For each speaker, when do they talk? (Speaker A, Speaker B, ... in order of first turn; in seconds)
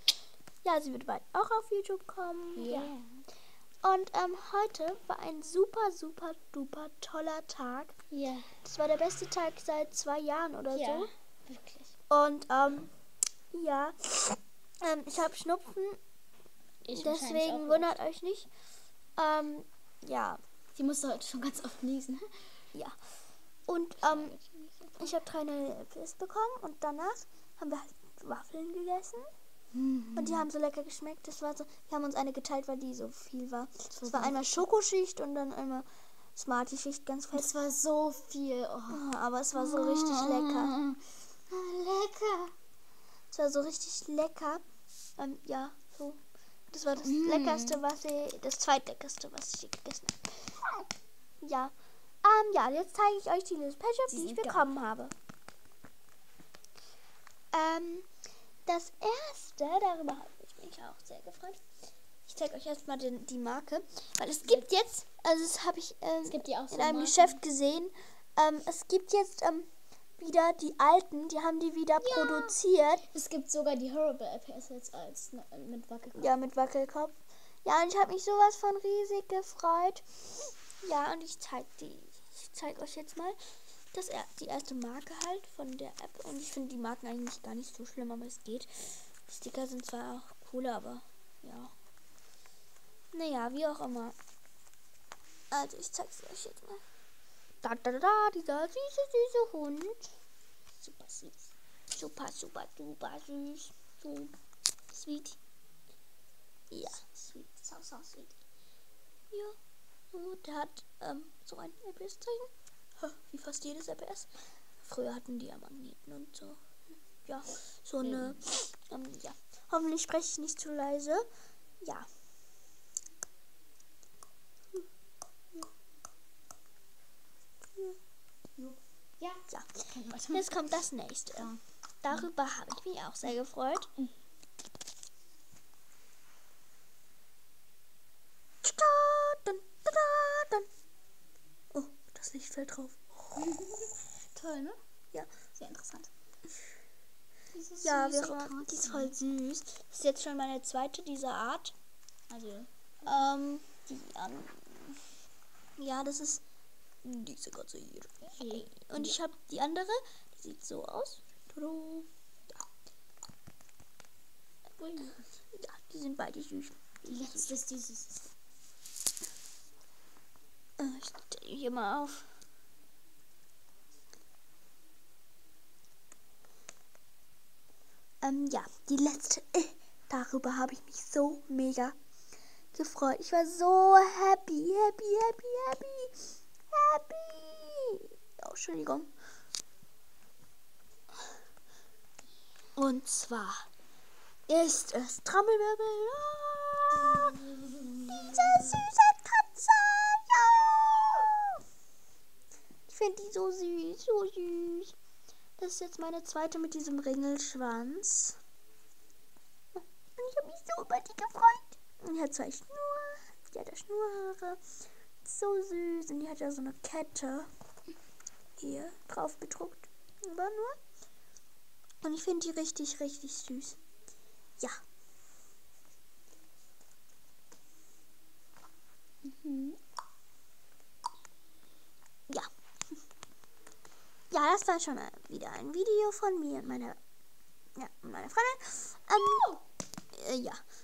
Speaker A: 0.6-2.9, 3.8-8.0, 8.6-11.1, 12.1-12.9, 13.5-16.0, 16.9-18.5, 19.2-20.4, 23.7-24.3, 25.0-29.3, 30.2-37.5, 38.9-40.7, 43.3-44.6, 45.2-50.8, 51.4-55.1, 57.5-58.1, 58.6-61.6, 62.3-69.7, 70.2-73.1, 76.2-83.4, 83.9-91.7, 93.1-94.2, 95.5-96.8, 97.6-100.1, 101.9-104.3, 104.9-105.3, 106.7-107.0, 109.3-109.6, 110.1-114.3, 114.8-116.6, 117.2-121.2, 121.8-122.1, 129.5-133.9, 138.6-140.7, 141.7-143.5, 147.8-151.7, 153.0-154.9, 155.8-156.4, 157.0-162.1, 165.5-167.6, 170.8-172.3, 178.2-182.0, 182.7-189.1, 192.8-193.7, 194.5-197.4, 198.0-201.6, 202.9-204.9, 205.6-208.4, 209.8-214.6, 215.2-217.5, 218.6-220.8, 222.0-223.8, 234.3-237.0, 237.8-239.5, 240.1-240.6
Speaker B: 2.5-3.2, 8.1-8.5, 10.7-11.9, 16.8-17.9, 20.8-22.6, 24.1-25.0, 29.7-30.5, 33.9-34.6, 37.3-39.0, 39.5-42.5, 47.0-47.8, 54.1-54.7, 66.2-67.4, 72.0-72.6, 73.1-76.3, 100.8-101.5, 106.9-108.4, 118.0-118.4, 128.6-130.7, 143.4-144.8, 145.6-146.1, 147.5-149.1, 152.3-152.7, 158.4-159.2, 164.8-165.2, 167.1-168.3, 197.9-198.8, 229.2-229.8, 239.2-239.6